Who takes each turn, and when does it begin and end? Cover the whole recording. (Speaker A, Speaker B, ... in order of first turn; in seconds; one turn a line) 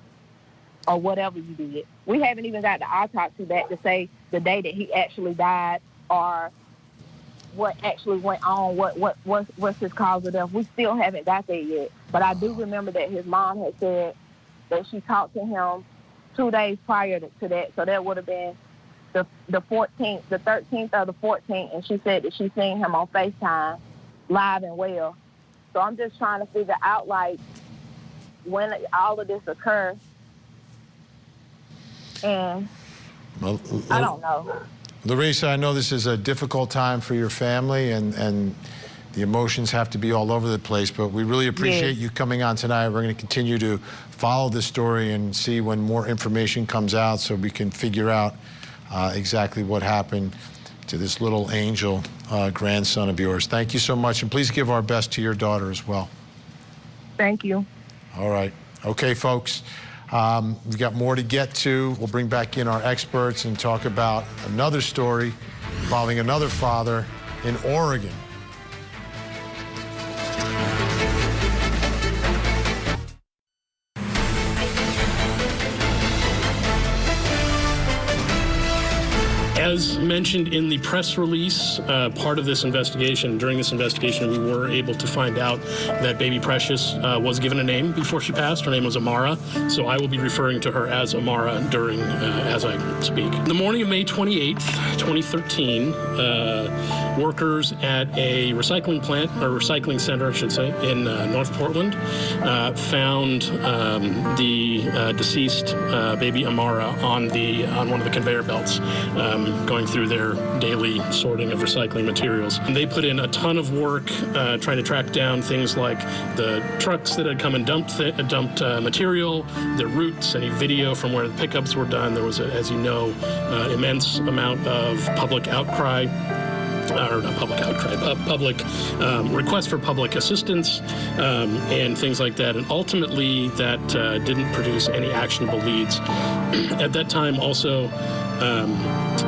Speaker A: 0.9-6.5
Speaker A: 7.5-14.2
Speaker A: 14.7-18.6
Speaker A: 19.1-25.2
Speaker A: 25.7-27.4
Speaker A: 28.4-30.0
Speaker A: 32.2-32.7
Speaker B: 33.4-34.1
Speaker A: 33.9-34.5
Speaker B: 35.0-38.6
Speaker B: 39.1-48.4
Speaker A: 41.6-41.9
Speaker B: 48.9-50.4
Speaker B: 50.9-56.1
Speaker A: 57.2-57.7
Speaker B: 58.1-68.2
Speaker C: 79.5-126.1
Speaker C: 126.9-136.0
Speaker C: 136.5-138.9